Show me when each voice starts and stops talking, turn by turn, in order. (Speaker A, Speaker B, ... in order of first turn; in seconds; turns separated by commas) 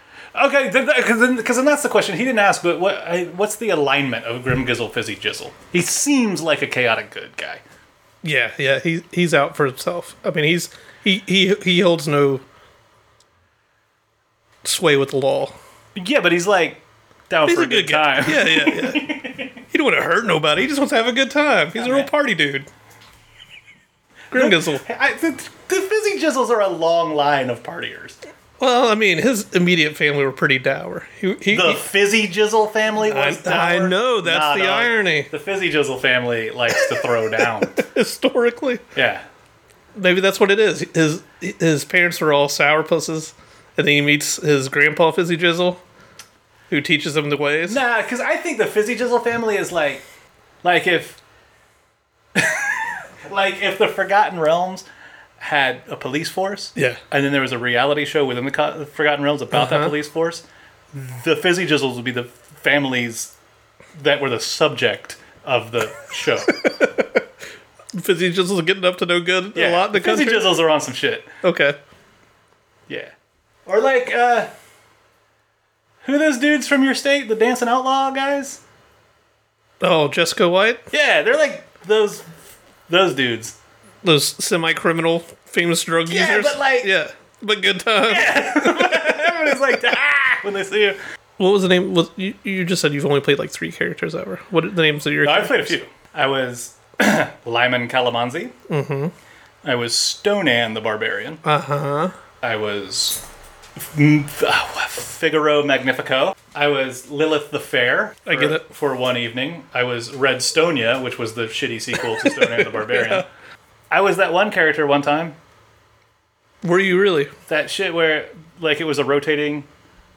Speaker A: 0.3-7.6, Speaker B: 8.2-12.4, Speaker B: 14.6-15.6, Speaker A: 15.9-19.5, Speaker B: 17.5-19.2, Speaker B: 19.7-22.7, Speaker A: 21.8-22.1, Speaker B: 24.3-24.8, Speaker A: 24.3-28.2, Speaker B: 28.6-31.9, Speaker A: 31.5-37.8, Speaker B: 33.0-35.3, Speaker B: 36.8-38.8, Speaker A: 39.0-39.2, Speaker B: 40.0-45.8, Speaker B: 46.7-47.8, Speaker A: 47.7-50.0, Speaker A: 50.6-51.2, Speaker A: 52.4-54.9, Speaker A: 55.4-63.3, Speaker B: 59.5-59.9, Speaker A: 64.0-66.6, Speaker B: 66.6-67.2, Speaker B: 68.0-70.6, Speaker A: 69.5-71.3, Speaker B: 71.4-71.8, Speaker A: 73.7-74.5, Speaker A: 76.0-78.6, Speaker B: 79.8-80.8, Speaker A: 80.9-82.3, Speaker A: 82.9-83.5, Speaker B: 84.0-89.3, Speaker A: 86.1-86.9, Speaker A: 88.1-91.0, Speaker B: 91.4-95.8, Speaker A: 95.2-98.5, Speaker B: 98.7-99.1, Speaker A: 99.6-101.4, Speaker B: 101.4-102.2, Speaker A: 102.4-103.2, Speaker A: 103.8-113.2, Speaker B: 108.3-108.6, Speaker B: 112.2-113.2, Speaker A: 113.9-115.4, Speaker B: 116.6-117.3, Speaker A: 117.5-119.7